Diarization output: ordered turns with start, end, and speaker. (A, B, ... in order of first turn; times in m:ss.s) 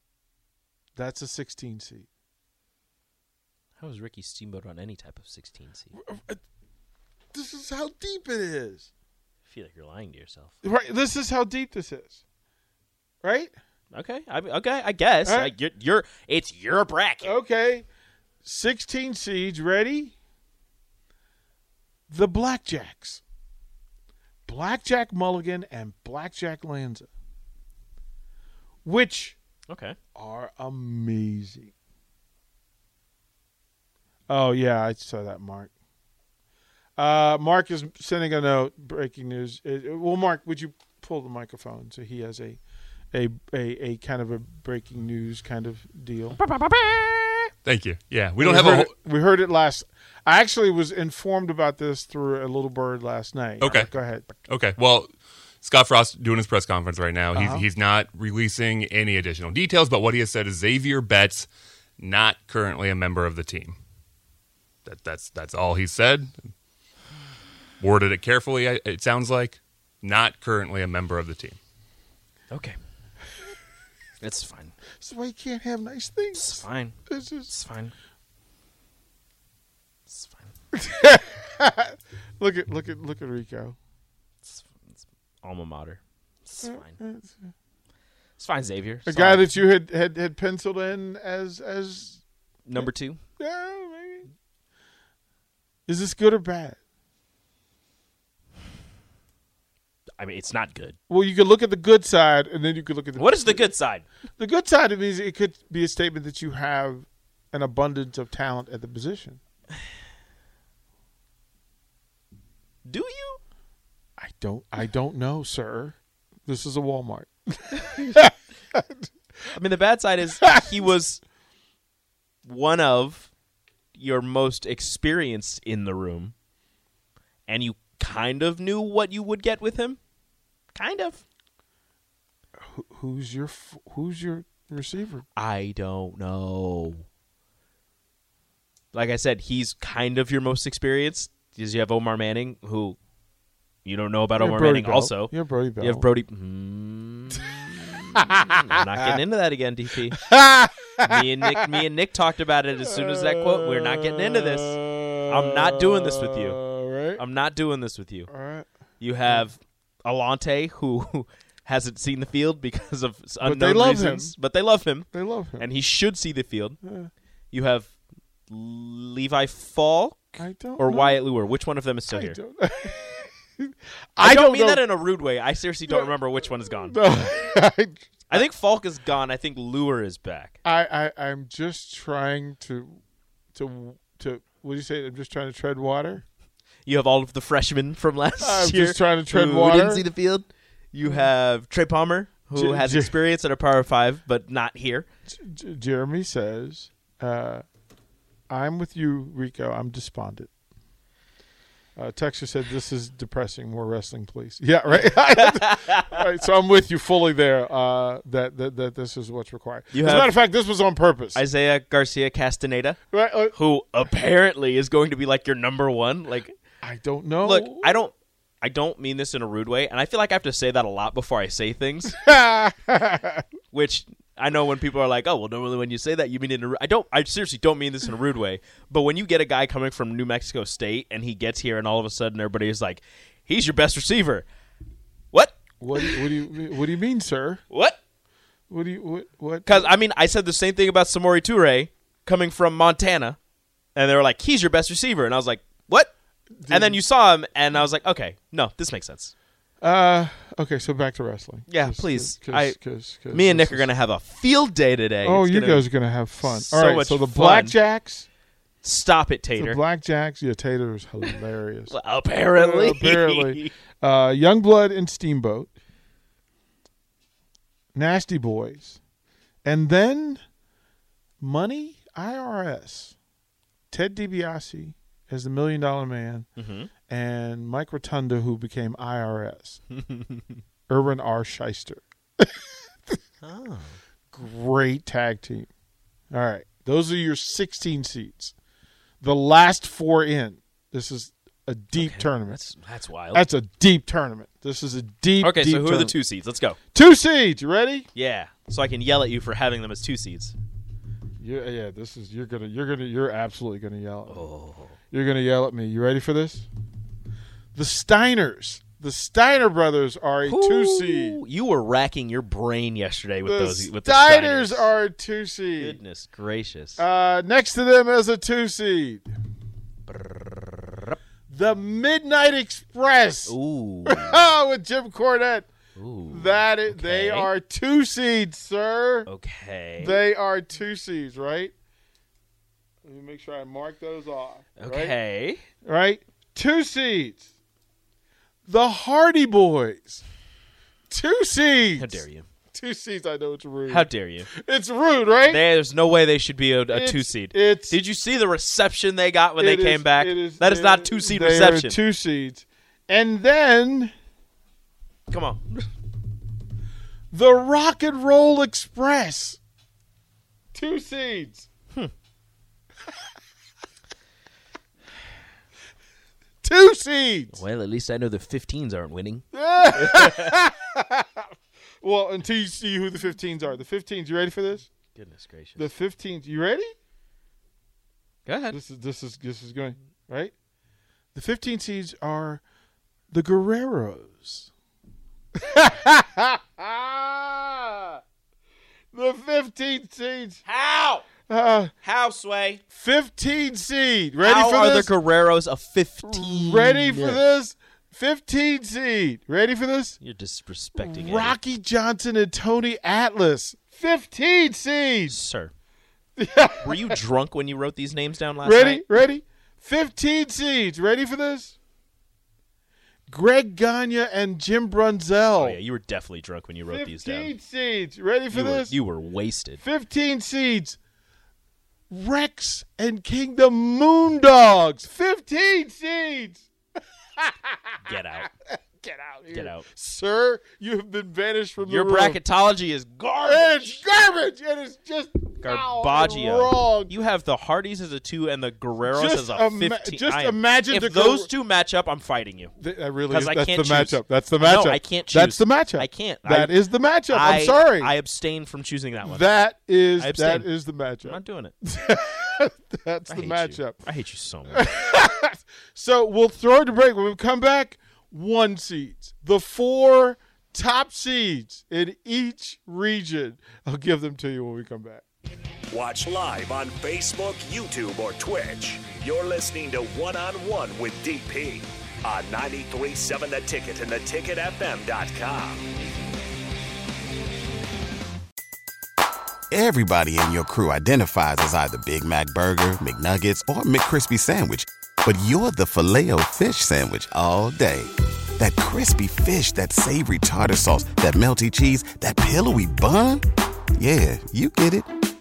0:01.0-0:02.1 A
0:03.8-0:05.9 B
0:05.9-0:06.4 A
0:07.3-0:08.9 A
0:09.4-0:10.5 B
0:10.6-0:12.2 A
0:13.2-0:13.5 A
0:13.9-0:17.3 B
0:15.2-0:15.5 A
0:17.2-0:17.8 A
0:18.4-0:20.1 A
0:22.1-0:23.2 A
0:24.5-0:27.1 A
0:28.8-0:29.4 A
0:29.7-0:30.0 B
0:30.1-0:31.7 A
0:34.3-0:35.7 A
0:37.0-0:42.6 A
0:43.1-0:46.4 A
0:46.7-0:47.0 B
0:47.6-0:48.9 C
0:48.4-0:54.3 A
0:53.6-0:53.9 C
0:54.5-0:55.1 C
0:55.6-1:01.5 C
0:57.3-0:57.7 A
1:02.0-1:03.8 C
1:04.8-1:06.4 C
1:07.8-1:11.6 C
1:12.5-1:12.8 B
1:14.2-1:14.7 B
1:15.0-1:17.5 A
1:16.3-1:17.0 B
1:17.5-1:17.9 B
1:20.1-1:20.5 B
1:20.7-1:23.8 A
1:24.4-1:27.0 B
1:26.6-1:27.5 A
1:28.4-1:29.5 B
1:29.0-1:32.2 A
1:32.6-1:33.2 B
1:32.8-1:34.2 A
1:35.9-1:36.8 A
1:40.2-1:41.0 B
1:41.1-1:43.7 A
1:43.1-1:44.0 B
1:44.4-1:49.4 A
1:52.8-1:53.4 B
1:54.2-1:59.0 A
1:59.5-2:01.2 B
2:00.4-2:00.6 A
2:02.4-2:03.3 B
2:03.9-2:06.3 B
2:07.5-2:10.0 B
2:10.7-2:11.2 B
2:12.6-2:15.2 A
2:15.4-2:17.0 B
2:18.9-2:23.0 B
2:23.8-2:30.2 B
2:24.4-2:26.1 A
2:30.1-2:31.5 A
2:31.0-2:36.6 B
2:32.8-2:37.2 A
2:37.2-2:38.3 B
2:38.3-2:38.7 A
2:39.0-2:46.8 B
2:43.4-2:44.4 A
2:45.1-2:45.7 A
2:46.8-2:47.1 A
2:47.5-2:47.9 B
2:48.5-2:52.4 B
2:50.4-2:51.2 A
2:52.1-2:54.8 A
2:54.2-2:57.4 B
2:55.9-2:56.1 A
2:56.8-2:58.4 A
2:58.3-3:00.6 B
3:00.6-3:03.0 A
3:03.5-3:06.2 A
3:06.8-3:15.1 B
3:08.4-3:10.0 A
3:11.0-3:11.3 A
3:12.5-3:13.2 A
3:15.3-3:17.6 A
3:18.5-3:20.5 A
3:22.0-3:31.4 A
3:24.9-3:26.1 B
3:29.9-3:30.3 B
3:31.3-3:33.0 B
3:33.1-3:33.6 A
3:33.5-3:36.6 B
3:36.8-3:38.1 A
3:37.4-3:42.2 B
3:42.1-3:43.4 A
3:43.7-3:54.4 B
3:55.3-3:56.4 B
3:55.8-3:57.6 A
3:57.7-3:58.0 B
3:58.7-3:59.9 A
3:59.6-4:03.4 B
4:03.9-4:06.1 B
4:06.6-4:07.0 A
4:06.7-4:09.3 B
4:09.8-4:13.9 A
4:11.7-4:12.8 B
4:13.3-4:15.9 B
4:15.2-4:18.2 A
4:16.4-4:17.8 B
4:18.8-4:19.8 B
4:19.5-4:21.9 A
4:21.9-4:23.7 B
4:22.5-4:25.7 A
4:27.9-4:29.0 A
4:29.6-4:30.4 A
4:31.4-4:33.1 A
4:33.9-4:36.5 A
4:36.6-4:36.9 B
4:37.1-4:39.8 A
4:39.9-4:40.6 B
4:40.9-4:42.6 A
4:43.4-4:44.0 B
4:44.3-4:45.7 A
4:46.3-4:48.5 A
4:49.2-4:52.6 A
4:51.9-4:53.4 B
4:53.3-4:56.1 A
4:55.4-4:56.8 B
4:56.9-4:58.1 A
4:58.1-5:00.5 B
5:01.4-5:04.5 A
5:04.3-5:04.9 B
5:05.1-5:06.7 A
5:07.7-5:11.4 A
5:10.4-5:14.9 B
5:13.4-5:16.0 A
5:15.8-5:17.0 B
5:17.0-5:19.3 A
5:20.1-5:21.0 B
5:21.5-5:23.5 A
5:23.4-5:24.4 B
5:24.0-5:25.7 A
5:25.9-5:27.5 B
5:26.3-5:29.3 A
5:29.2-5:30.2 B
5:30.0-5:31.7 A
5:33.0-5:35.2 A
5:34.8-5:35.6 B
5:35.8-5:37.4 A
5:38.7-5:40.2 A
5:41.1-5:45.6 A
5:42.0-5:42.4 B
5:43.9-5:44.5 B
5:45.5-5:52.0 B
5:46.9-5:48.0 A
5:49.6-5:54.1 A
5:55.3-5:55.8 B
5:57.3-5:59.6 A
6:00.7-6:01.7 A
6:06.6-6:07.6 A
6:07.5-6:10.5 B
6:09.5-6:11.5 A
6:12.0-6:14.9 A
6:15.1-6:15.9 B
6:15.8-6:16.9 A
6:18.4-6:18.8 B
6:18.7-6:20.5 A
6:21.3-6:22.6 A
6:23.3-6:24.7 A
6:25.6-6:28.2 A
6:29.1-6:30.6 A
6:30.6-6:31.2 B
6:31.5-6:31.9 A
6:32.0-6:32.8 B
6:32.9-6:35.1 A
6:34.4-6:37.4 B
6:36.2-6:40.2 A
6:40.2-6:41.6 B
6:40.9-6:45.4 A
6:45.3-6:45.7 B
6:46.4-6:47.2 A
6:46.8-6:49.1 B
6:48.6-6:51.7 A
6:53.3-6:55.8 A
6:55.6-6:57.5 B
6:56.9-6:59.0 A
6:58.5-6:59.8 B
6:59.8-7:01.0 A
7:02.1-7:06.7 A
7:07.4-7:07.9 A
7:08.0-7:08.5 B
7:08.9-7:12.4 A
7:09.5-7:09.8 B
7:11.8-7:14.0 B
7:13.4-7:17.1 A
7:15.6-7:22.7 B
7:19.0-7:21.5 A
7:22.8-7:28.1 A
7:23.3-7:29.5 B
7:29.2-7:34.0 A
7:30.2-7:31.7 B
7:33.3-7:35.0 B
7:34.7-7:45.2 A
7:45.9-7:55.8 D
7:59.7-8:13.4 E
8:14.0-8:15.1 E